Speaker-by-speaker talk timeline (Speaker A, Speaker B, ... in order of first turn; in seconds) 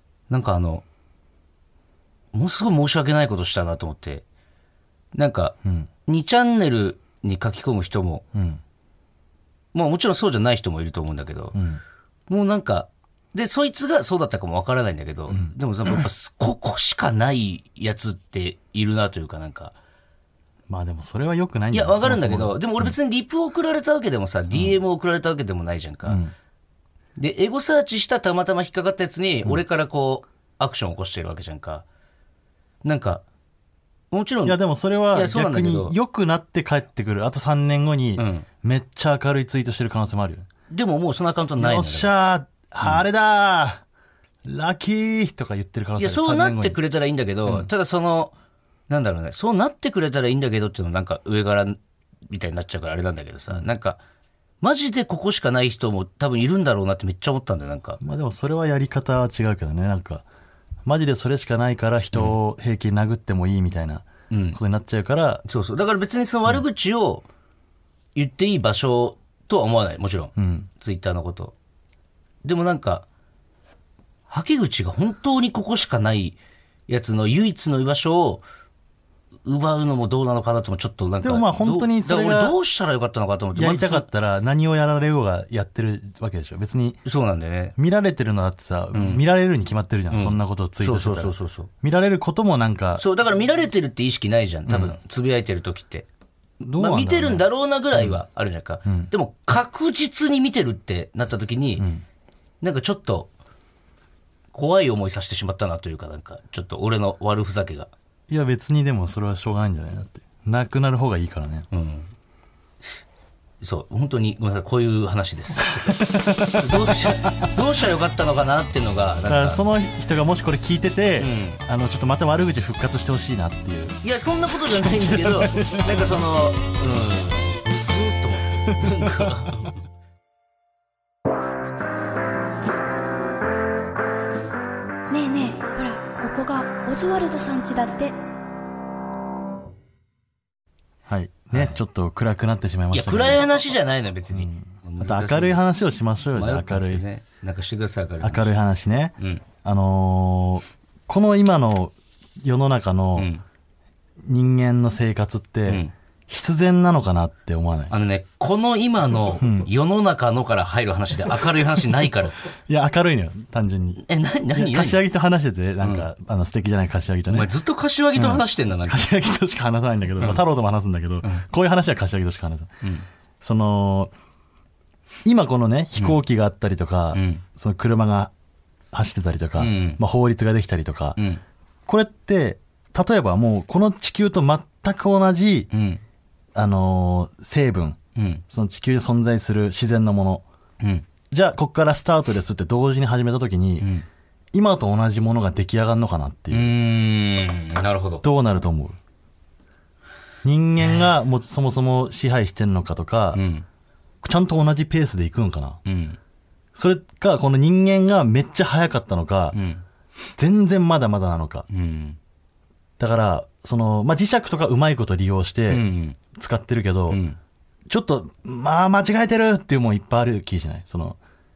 Speaker A: 0.3-0.8, 2.3-4.2, 5.1-8.2, 9.7-11.6, 12.3-19.8, 21.7-26.2, 27.2-31.9, 32.8-33.2, 34.1-34.6, 35.1-36.0, 38.2-38.5, 40.7-42.1, 46.0-48.3, 48.9-54.0, 54.6-58.0, 64.3-64.6, 65.5-67.2, 68.2-71.5, 72.4-73.1, 74.3-78.4, 79.5-84.1, 87.0-87.8, 88.9-89.2, 90.1-91.7, 93.0-96.1, 96.8-101.9, 102.6-103.3, 104.5-107.9, 111.7-112.1, 113.6-119.6, 121.2-121.6, 124.0-129.8, 142.9-145.6, 146.3-148.5, 153.2-153.4, 155.7-155.9, 157.9-162.4, 164.0-165.0, 165.8-166.1, 167.3-169.1, 170.2-170.4, 177.1-177.4, 179.6-180.0, 181.2-181.4, 185.7-186.0, 188.2-188.4, 193.8-194.1, 196.5-198.2, 203.3-203.7, 205.8-206.2, 209.5-209.8, 211.7-212.2, 215.7-216.2, 217.1-217.4
Speaker B: 8.3-8.6, 11.5-11.8, 15.3-16.0, 20.7-22.9, 26.1-26.3, 34.5-40.5, 41.6-43.8, 44.5-46.8, 58.0-60.2, 60.9-65.4, 70.4-70.7, 81.2-82.6, 83.5-87.0, 87.8-93.0, 94.7-95.0, 96.6-98.2, 101.8-102.0, 108.3-111.7, 115.7-117.6, 119.3-126.2, 128.9-129.3, 141.1-143.4, 144.3-147.0, 148.2-153.3, 154.2-157.9, 159.4-159.7, 162.7-167.5, 168.2-172.7, 173.4-174.1, 175.2-178.3, 178.9-181.2, 181.9-185.7, 186.6-188.0, 188.5-190.4, 191.3-193.9, 194.5-196.7, 198.2-199.0, 200.4-203.4, 204.2-205.8, 206.8-209.6, 210.4-211.7, 213.0-217.2, 217.9-221.2
Speaker C: 135.1-138.2